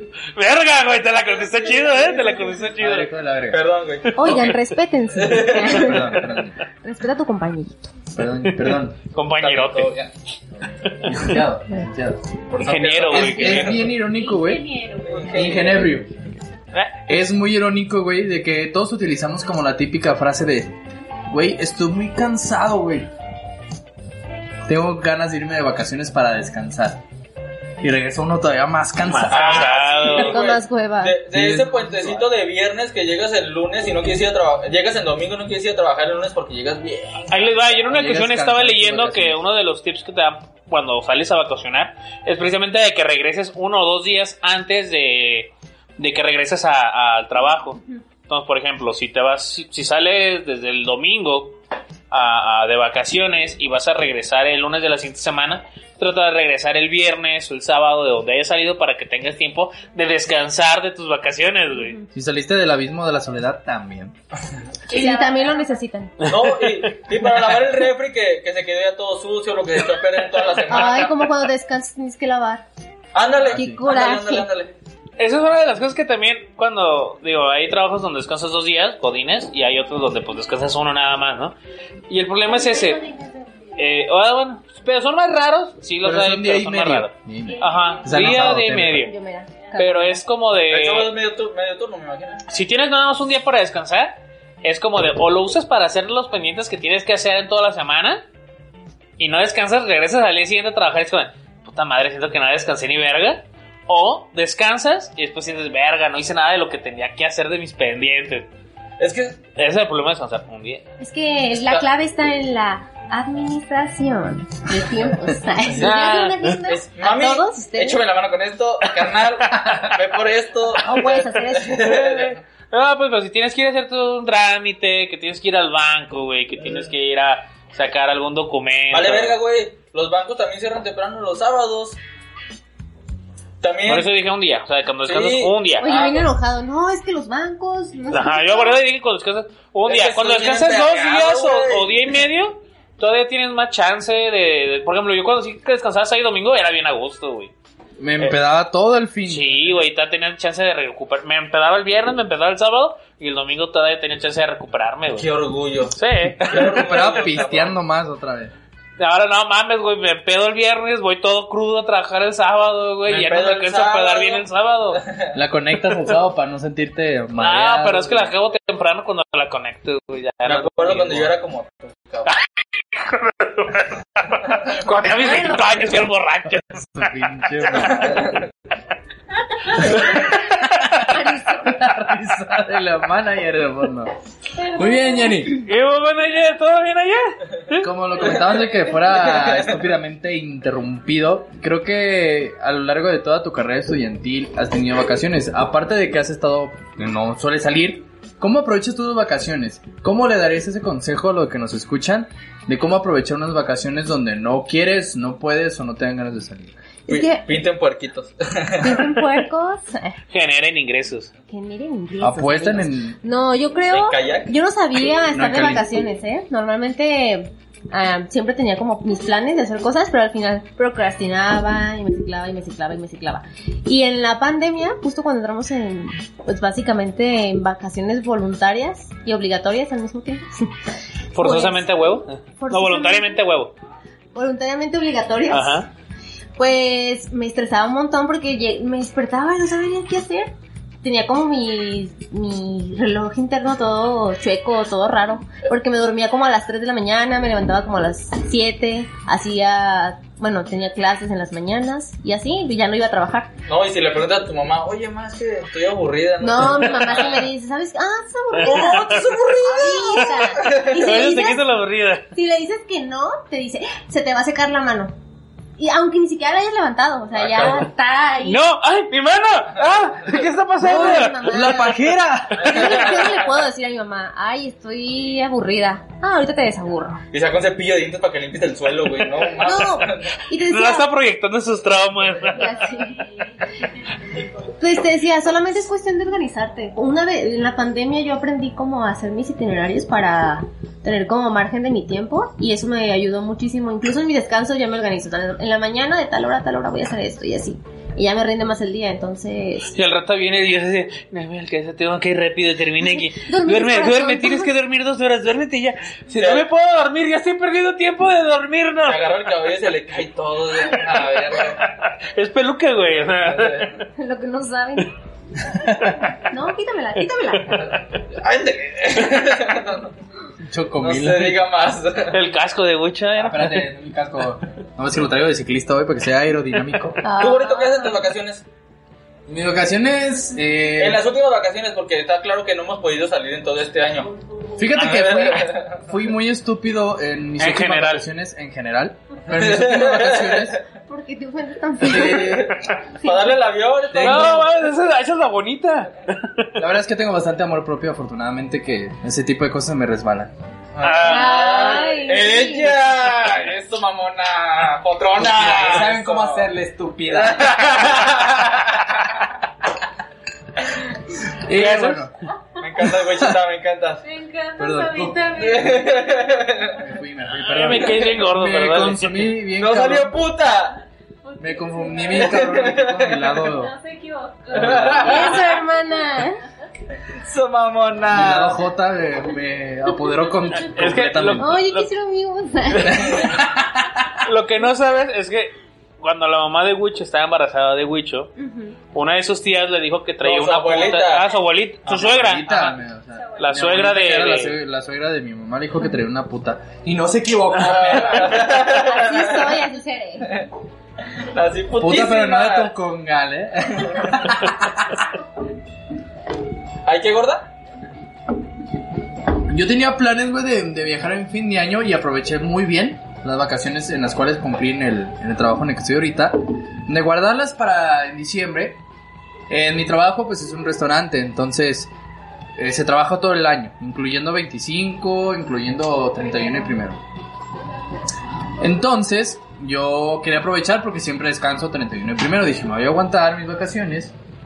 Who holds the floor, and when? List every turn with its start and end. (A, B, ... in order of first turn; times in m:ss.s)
0:00.4-0:03.1 A
0:01.5-0:02.4 B
0:02.8-0:03.6 C
0:03.5-0:04.5 B
0:04.2-0:06.2 D
0:04.2-0:04.5 A
0:05.2-0:05.9 B
0:05.6-0:06.6 C
0:06.8-0:07.9 D
0:08.1-0:09.0 C
0:08.6-0:10.0 A
0:09.4-0:10.1 B
0:10.9-0:11.2 A
0:11.0-0:12.2 C
0:12.5-0:13.9 B
0:12.6-0:13.9 A
0:13.1-0:14.7 C
0:13.9-0:15.6 E
0:15.1-0:16.0 B
0:15.3-0:16.1 C
0:16.7-0:17.0 A
0:17.1-0:20.8 C
0:21.3-0:23.1 C
0:24.7-0:27.0 C
0:27.8-0:29.7 C
0:29.1-0:30.4 A
0:29.3-0:37.7 B
0:30.1-0:31.2 D
0:31.3-0:32.3 C
0:37.3-0:51.6 A
0:37.9-0:39.4 C
0:52.1-1:02.0 A
1:02.1-1:04.2 C
1:04.9-1:05.7 E
1:04.9-1:06.2 D
1:06.2-1:06.8 A
1:06.2-1:11.2 B
1:10.7-1:12.6 D
1:13.2-1:14.7 B
1:13.4-1:13.8 C
1:13.6-1:14.5 D
1:15.2-1:21.6 A
1:22.1-1:23.0 A
1:22.5-1:23.4 E
1:23.8-1:29.1 A
1:26.0-1:29.1 C
1:27.5-1:28.1 E
1:29.0-1:30.2 D
1:29.8-1:31.1 A
1:30.7-1:32.4 B
1:32.5-1:38.2 A
1:39.2-1:48.5 A
1:49.0-1:49.4 B
1:49.6-1:50.9 A
1:51.0-1:58.0 D
1:55.8-1:56.6 A
1:56.7-2:02.4 B
2:00.8-2:01.9 D
2:01.8-2:09.4 A
2:08.9-2:12.0 B
2:13.6-2:14.1 B
2:13.9-2:15.9 A
2:15.1-2:16.3 B
2:15.8-2:18.8 D
2:18.1-2:27.5 A
2:19.9-2:22.0 B
2:28.0-2:29.8 C
2:29.3-2:35.3 A
2:35.1-2:37.8 B
2:35.9-2:36.7 A
2:36.4-2:38.5 C
2:39.0-2:45.0 A
2:43.1-2:44.4 B
2:45.0-2:45.4 B
2:45.3-2:48.3 C
2:47.4-2:51.3 A
2:50.4-2:52.3 B
2:52.9-2:57.1 A
2:55.2-2:55.6 D
2:56.7-2:58.4 C
2:57.9-2:58.4 B
2:59.8-3:00.9 A
2:59.8-3:04.1 C
3:01.1-3:01.8 D
3:04.7-3:05.7 C
3:05.5-3:07.9 A
3:07.8-3:26.8 C
3:08.2-3:09.7 B
3:27.1-3:27.5 D
3:27.1-3:29.2 B
3:28.8-3:30.2 D
3:30.3-3:31.3 A
3:31.5-3:50.7 D
3:32.2-3:33.2 C
3:33.9-3:34.5 B
3:35.3-3:35.8 C
3:51.3-3:53.8 A
3:51.4-3:51.9 D
3:52.6-3:53.4 D
3:54.4-3:55.9 D
3:55.5-3:55.9 A
3:56.6-4:00.5 D
4:01.0-4:13.5 D
4:13.7-4:17.5 B
4:16.4-4:21.6 D
4:18.6-4:19.2 A
4:18.6-4:20.9 B
4:20.2-4:22.3 A
4:22.3-4:25.1 D
4:25.8-4:28.6 D
4:27.4-4:27.9 B
4:28.4-4:31.4 A
4:30.8-4:32.0 D
4:30.8-4:33.0 C
4:32.6-4:33.5 B
4:32.6-4:37.2 D
4:37.3-4:40.3 B
4:39.6-4:41.1 D
4:40.6-4:42.8 A
4:42.5-4:43.2 D
4:44.8-5:00.0 D
4:59.9-5:09.4 A
5:03.0-5:04.7 D
5:06.4-5:06.6 B
5:09.1-5:11.8 B
5:10.9-5:14.1 A
5:13.4-5:14.0 B
5:14.2-5:15.1 D
5:16.3-5:17.9 D
5:17.6-5:17.8 A
5:18.3-5:20.1 B
5:20.7-5:21.7 C
5:21.0-5:22.4 B
5:22.3-5:23.9 A
5:23.4-5:27.2 C
5:27.2-5:28.2 D
5:27.4-5:28.6 B
5:29.5-5:31.2 C
5:31.0-5:34.3 B
5:34.8-5:40.8 C
5:34.9-5:36.1 B
5:37.6-5:38.2 A
5:39.5-5:40.8 B
5:41.1-5:42.7 D
5:42.0-5:42.7 C
5:42.1-5:44.7 B
5:43.2-5:43.6 D
5:44.1-5:44.7 C
5:44.2-5:46.7 A
5:46.8-5:50.5 C
5:51.0-5:56.7 B
5:51.0-5:52.0 A
5:51.2-5:52.9 D
5:55.4-5:58.1 C
5:57.3-5:59.4 B
6:01.3-6:02.3 C
6:01.7-6:02.3 A
6:02.8-6:04.2 B
6:03.0-6:03.6 C
6:04.2-6:06.5 E
6:04.8-6:06.0 C
6:05.6-6:07.0 B
6:06.9-6:10.4 C
6:07.6-6:09.5 A
6:09.8-6:11.0 B
6:11.4-6:13.0 E
6:11.6-6:13.9 C
6:12.3-6:13.6 B
6:13.6-6:16.4 E
6:14.7-6:15.4 C
6:14.7-6:15.6 B
6:15.2-6:16.6 D
6:17.4-6:18.8 B
6:18.3-6:21.8 C
6:20.8-6:22.1 A
6:21.6-6:23.6 D
6:23.0-6:24.3 C
6:24.4-6:28.5 A
6:28.6-6:29.0 D
6:29.1-6:33.0 A
6:30.4-6:31.5 B
6:32.1-6:32.4 B
6:32.1-6:38.7 C
6:33.4-6:33.6 E
6:33.6-6:34.8 A
6:37.8-6:39.8 B
6:38.8-6:40.6 D
6:41.5-6:42.9 B
6:42.0-6:45.2 C
6:47.0-6:47.7 B
6:49.7-6:59.0 C
6:59.7-7:02.1 C
7:02.8-7:07.2 C
7:08.8-7:14.3 C